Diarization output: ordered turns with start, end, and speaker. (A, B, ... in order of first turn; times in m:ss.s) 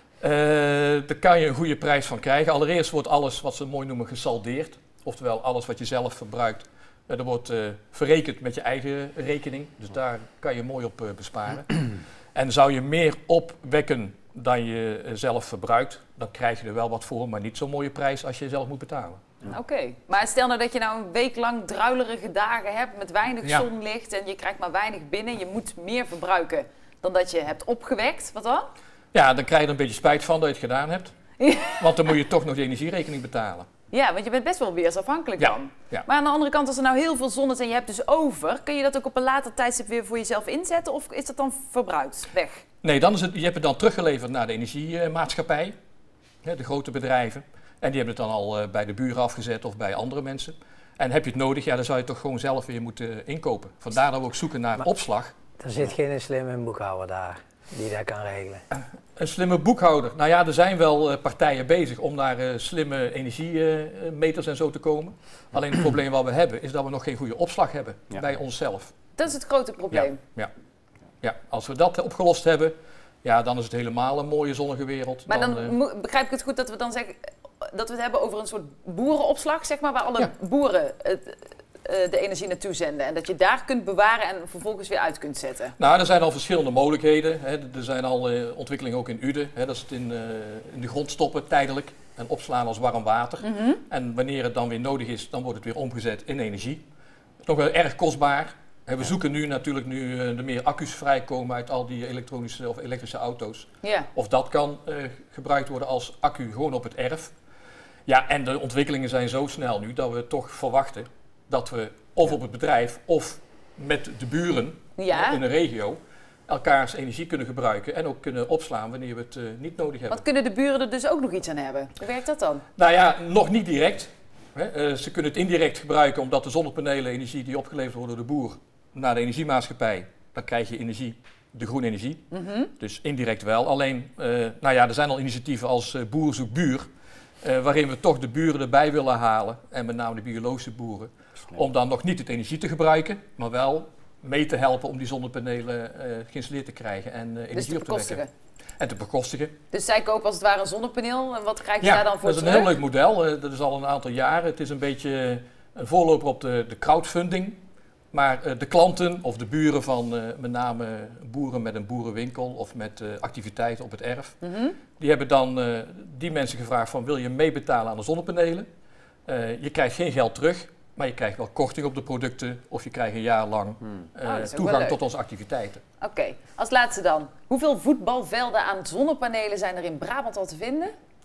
0:00.2-0:19.4 A
0:19.4-0:28.6 B
0:29.1-0:31.2 A
0:31.4-0:31.8 B
0:31.7-0:33.7 A
0:33.9-0:42.6 B
0:35.4-0:36.0 A
0:42.8-0:45.7 A
0:46.4-0:55.3 A
0:55.6-0:58.6 C
0:59.2-1:08.9 A
1:09.2-1:10.2 B
1:09.9-1:10.5 A
1:11.2-1:15.7 A
1:15.3-1:25.7 B
1:25.8-1:36.8 A
1:33.4-1:33.8 B
1:37.4-1:47.3 A
1:43.8-1:44.1 B
1:48.1-2:00.2 A
1:55.0-1:55.4 B
2:00.1-2:02.6 B
2:02.8-2:16.8 A
2:12.3-2:12.7 B
2:17.4-2:28.2 A
2:27.5-2:28.3 B
2:28.8-2:29.5 A
2:29.7-2:32.7 B
2:31.8-2:37.6 A
2:38.1-2:44.4 A
2:44.4-2:44.8 B
2:45.0-2:48.7 A
2:49.3-2:55.8 A
2:54.2-2:55.0 B
2:56.0-3:00.9 B